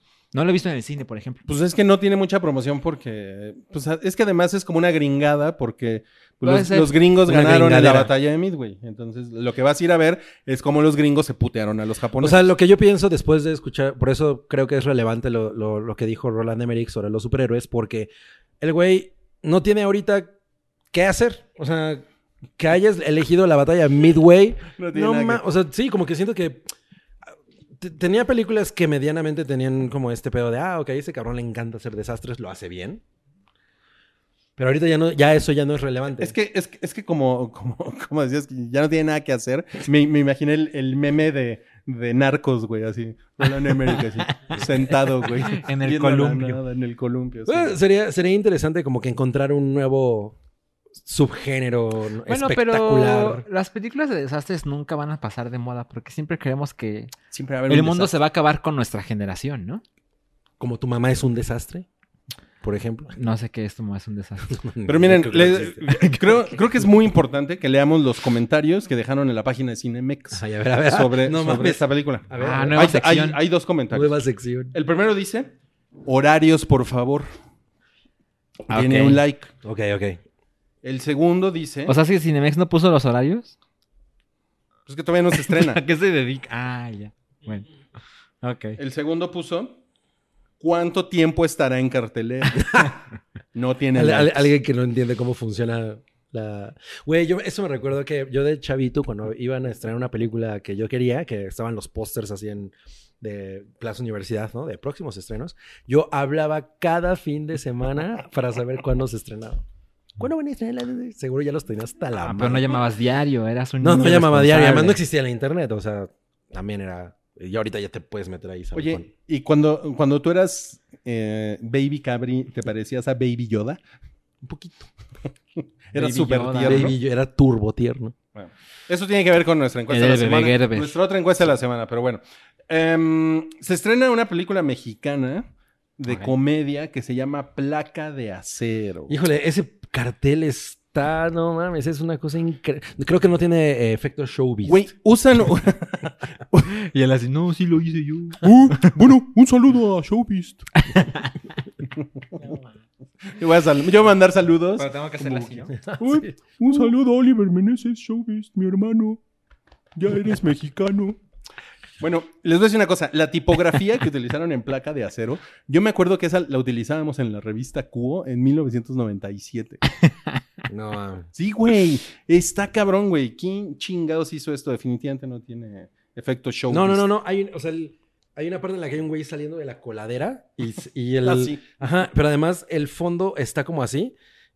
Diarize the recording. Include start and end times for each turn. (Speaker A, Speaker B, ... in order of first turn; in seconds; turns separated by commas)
Speaker A: 0.3-1.4, Speaker B: 1.5-12.5, Speaker A: 6.4-6.9, Speaker C: 7.2-8.1, Speaker C: 12.2-20.3, Speaker C: 20.9-22.0, Speaker C: 22.6-26.7, Speaker B: 24.8-25.4, Speaker C: 27.8-33.0, Speaker C: 34.6-36.3, Speaker B: 36.2-47.7, Speaker A: 43.9-44.6, Speaker A: 45.4-46.6, Speaker C: 47.5-50.4, Speaker C: 51.0-53.4, Speaker A: 52.3-57.1, Speaker B: 57.3-58.1, Speaker A: 57.7-59.8, Speaker C: 60.6-61.9, Speaker C: 62.6-63.1, Speaker A: 63.1-64.5, Speaker C: 64.5-65.9, Speaker B: 64.8-74.2, Speaker C: 70.3-72.9, Speaker A: 72.4-73.4, Speaker C: 73.9-74.7, Speaker B: 74.7-75.5, Speaker B: 76.0-77.3, Speaker A: 78.7-79.2, Speaker B: 78.7-79.5, Speaker C: 79.6-80.2, Speaker B: 80.8-81.9, Speaker A: 81.9-83.5, Speaker B: 84.9-85.8, Speaker A: 85.3-87.7, Speaker A: 88.4-88.8, Speaker B: 88.8-89.8, Speaker B: 90.6-93.0, Speaker C: 92.6-92.9, Speaker B: 93.5-94.5, Speaker C: 93.9-109.6, Speaker C: 110.2-112.8, Speaker A: 112.2-115.0, Speaker C: 113.8-119.1, Speaker B: 118.7-123.8, Speaker C: 124.4-124.9, Speaker B: 125.9-126.9, Speaker A: 125.9-126.9, Speaker C: 126.7-128.1, Speaker B: 128.3-135.4, Speaker A: 129.9-130.9, Speaker B: 136.0-139.2, Speaker C: 139.1-144.9, Speaker B: 144.6-146.6, Speaker A: 146.6-148.5, Speaker B: 148.4-150.7, Speaker A: 150.8-151.3, Speaker B: 153.3-159.2, Speaker A: 154.8-155.7, Speaker C: 155.8-156.8, Speaker B: 159.9-161.2, Speaker B: 162.0-169.8, Speaker C: 170.7-171.3, Speaker B: 171.3-177.1, Speaker C: 176.7-184.1, Speaker B: 181.2-181.6